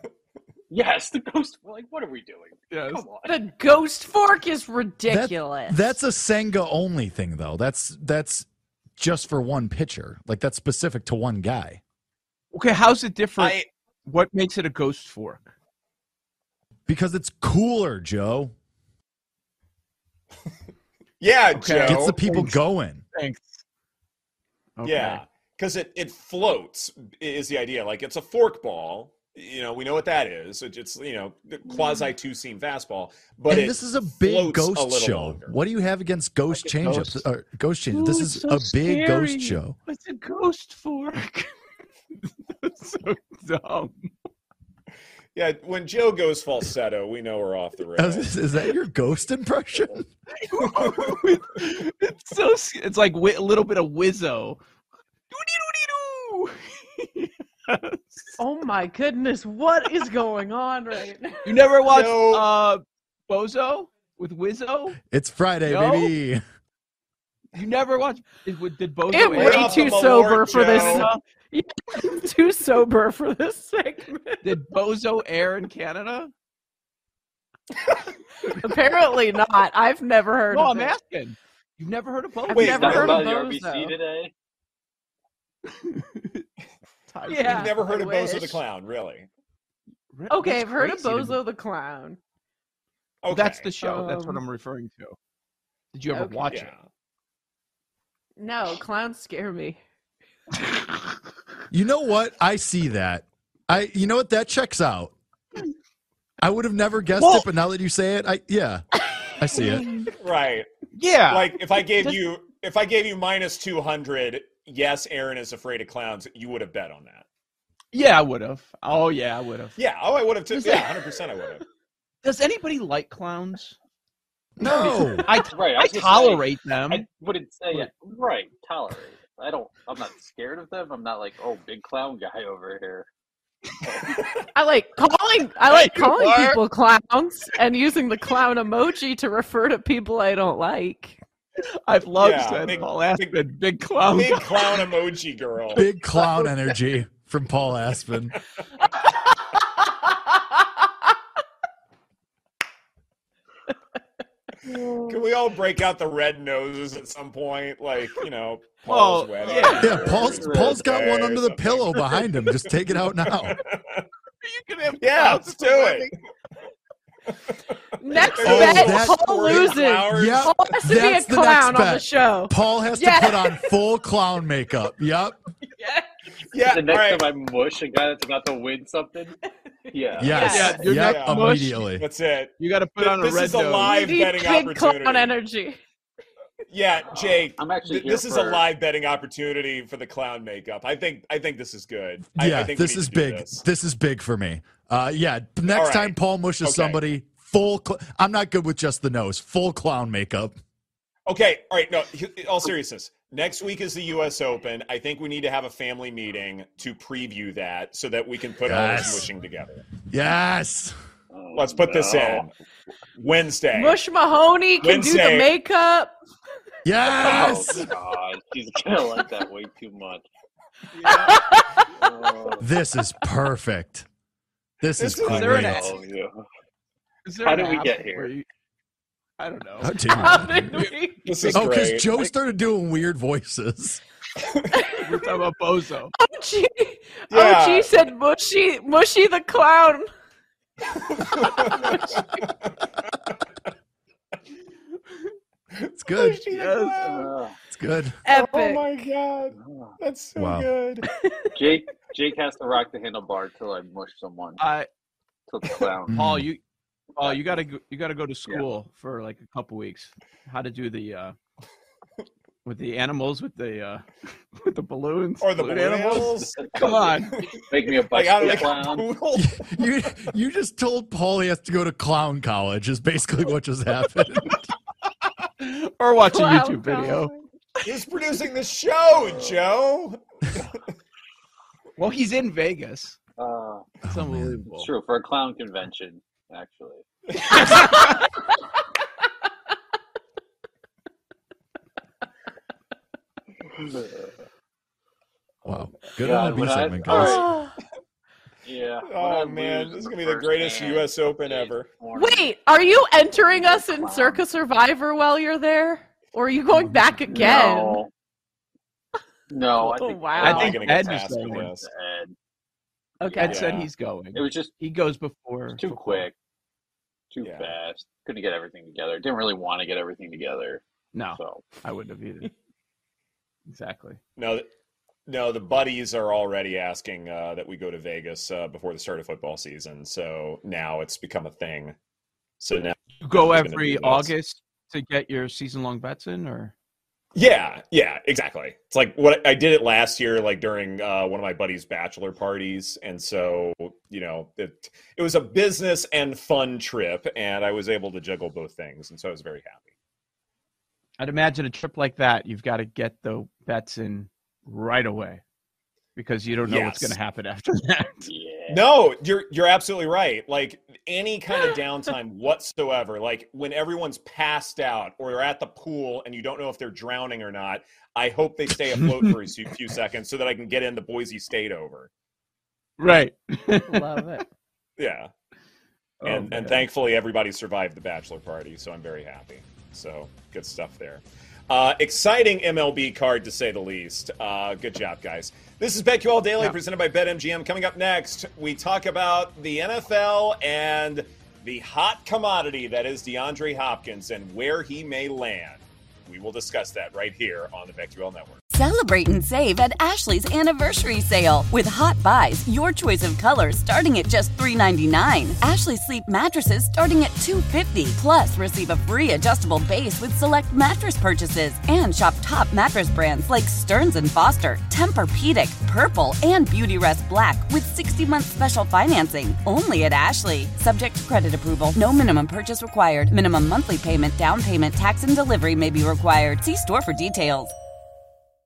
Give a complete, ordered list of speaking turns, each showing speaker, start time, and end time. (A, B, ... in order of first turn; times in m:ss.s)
0:00.7-0:03.4 A
0:02.7-0:03.0 B
0:03.3-0:06.0 C
0:05.1-0:08.5 D
0:09.0-0:11.8 D
0:12.5-0:15.5 B
0:13.4-0:13.7 E
0:16.9-0:18.5 D
0:21.2-0:22.2 E
0:21.5-0:22.6 B
0:21.8-0:23.0 D
0:23.1-0:23.6 B
0:24.8-0:25.2 B
0:24.8-0:35.6 E
0:33.5-0:39.8 D
0:36.5-0:37.3 B
0:37.9-0:41.5 B
0:42.4-0:44.1 B
0:45.3-0:48.3 E
0:48.0-0:50.1 D
0:50.4-0:54.6 B
0:50.6-0:51.2 E
0:55.3-0:58.4 B
0:58.4-1:01.6 C
1:01.4-1:05.0 B
1:01.8-1:02.5 E
1:05.0-1:06.4 D
1:05.7-1:06.1 B
1:07.5-1:10.0 B
1:09.1-1:14.5 C
1:09.3-1:11.1 E
1:10.6-1:11.2 B
1:14.4-1:16.3 B
1:18.5-1:18.8 B
1:18.5-1:21.0 C
1:20.5-1:22.7 B
1:22.5-1:24.0 C
1:22.5-1:23.2 E
1:22.6-1:24.3 A
1:25.9-1:26.4 B
1:27.1-1:27.8 B
1:27.3-1:28.6 C
1:27.4-1:29.3 E
1:30.1-1:31.4 B
1:30.3-1:32.2 C
1:33.2-1:34.1 E
1:33.3-1:35.2 B
1:33.8-1:34.4 C
1:35.9-1:36.7 B
1:36.1-1:36.5 C
1:36.5-1:36.8 E
1:38.4-1:39.8 C
1:41.7-1:45.2 D
1:46.4-1:49.9 D
1:47.2-1:47.4 B
1:49.6-1:50.0 C
1:50.2-1:50.7 E
1:51.0-1:51.6 B
1:51.3-1:57.3 E
1:57.9-1:59.8 B
1:59.8-2:01.6 E
2:00.5-2:00.9 B
2:02.2-2:03.8 B
2:04.6-2:05.4 D
2:04.6-2:07.1 B
2:05.5-2:13.1 A
2:13.8-2:14.2 A
2:14.5-2:21.2 C
2:15.7-2:16.6 B
2:21.9-2:24.8 B
2:22.2-2:23.4 E
2:24.1-2:25.9 E
2:25.7-2:28.4 D
2:35.0-2:44.0 E
2:38.8-2:40.0 B
2:39.6-2:41.1 A
2:39.8-2:43.6 D
2:44.4-2:46.1 B
2:45.0-2:46.1 E
2:48.0-2:53.8 C
2:48.2-2:50.8 E
2:48.3-2:55.4 D
2:55.7-2:56.0 C
2:56.5-2:57.3 E
2:56.7-2:59.4 A
2:59.9-3:00.9 C
2:59.9-3:00.7 A
3:00.2-3:02.1 D
3:00.4-3:01.8 B
3:01.0-3:05.4 E
3:02.6-3:04.0 B
3:03.8-3:05.8 C
3:06.7-3:13.6 E
3:07.2-3:08.7 A
3:12.3-3:20.6 D
3:15.7-3:17.0 E
3:21.3-3:29.8 E
3:28.6-3:29.3 D
3:30.1-3:30.9 D
3:31.3-3:32.5 A
3:31.5-3:32.5 E
3:33.2-3:34.0 E
3:33.7-3:36.1 C
3:34.8-3:35.5 E
3:36.8-3:37.9 D
3:37.1-3:40.3 A
3:40.9-3:41.4 E
3:41.2-3:41.6 C
3:42.0-3:42.7 A
3:42.6-3:44.1 D
3:44.8-3:45.9 D
3:45.0-3:45.9 E
3:45.2-3:46.0 B
3:45.6-3:46.3 A
3:47.2-3:48.5 B
3:47.4-3:48.3 A
3:49.4-3:50.9 B
3:49.8-3:50.8 D
3:50.2-3:51.6 C
3:51.3-3:52.2 E
3:51.5-3:54.0 D
3:55.0-3:56.1 B
3:56.2-4:00.1 C
3:57.3-3:57.9 E
4:01.2-4:02.9 E
4:01.6-4:02.0 C
4:05.8-4:07.3 E
4:06.0-4:06.5 D
4:06.5-4:07.1 B
4:07.0-4:07.6 A
4:07.7-4:08.2 D
4:08.2-4:09.1 C
4:08.3-4:11.1 E
4:09.6-4:10.0 A
4:10.4-4:10.7 D
4:11.3-4:11.5 C
4:11.6-4:14.6 A
4:14.6-4:14.9 B
4:15.5-4:16.2 A
4:16.1-4:16.5 D
4:16.1-4:16.6 B
4:17.2-4:21.4 B
4:17.2-4:17.6 A
4:22.6-4:27.4 B
4:25.4-4:27.5 E
4:26.4-4:29.1 A
4:28.0-4:30.1 E
4:29.3-4:34.7 D
4:35.6-4:37.3 B
4:36.3-4:37.4 C
4:37.8-4:40.7 E
4:39.1-4:39.7 A
4:42.0-4:43.2 B
4:43.4-4:43.9 A
4:44.0-4:44.6 D
4:44.1-4:44.9 B
4:44.7-4:47.0 A
4:47.7-4:47.9 C
4:53.8-4:54.2 A
4:55.6-4:57.5 D
4:56.2-4:57.5 A
4:57.1-4:57.7 C
4:58.6-5:04.4 A
4:59.0-5:01.9 E
5:02.2-5:08.0 C
5:07.3-5:08.1 A
5:09.5-5:12.4 A
5:09.8-5:10.8 C
5:10.4-5:11.7 B
5:10.6-5:11.9 E
5:13.2-5:13.6 C
5:13.4-5:16.3 B
5:13.4-5:13.9 E
5:14.3-5:14.7 A
5:15.7-5:16.3 A
5:17.3-5:21.6 A
5:17.4-5:17.8 E
5:21.1-5:22.5 B
5:23.7-5:24.2 B
5:24.4-5:24.7 E
5:25.3-5:32.0 E
5:32.6-5:34.3 E
5:33.2-5:36.7 B
5:37.4-5:49.8 E
5:51.2-5:55.4 B
5:56.2-5:58.3 B
5:56.6-5:57.2 E
5:58.3-5:58.9 A
5:58.7-6:12.1 E
6:08.7-6:09.5 B
6:13.0-6:14.4 B
6:13.9-6:14.4 C
6:15.0-6:15.3 E
6:16.2-6:16.9 B
6:16.2-6:38.6 E
6:38.7-7:07.7 F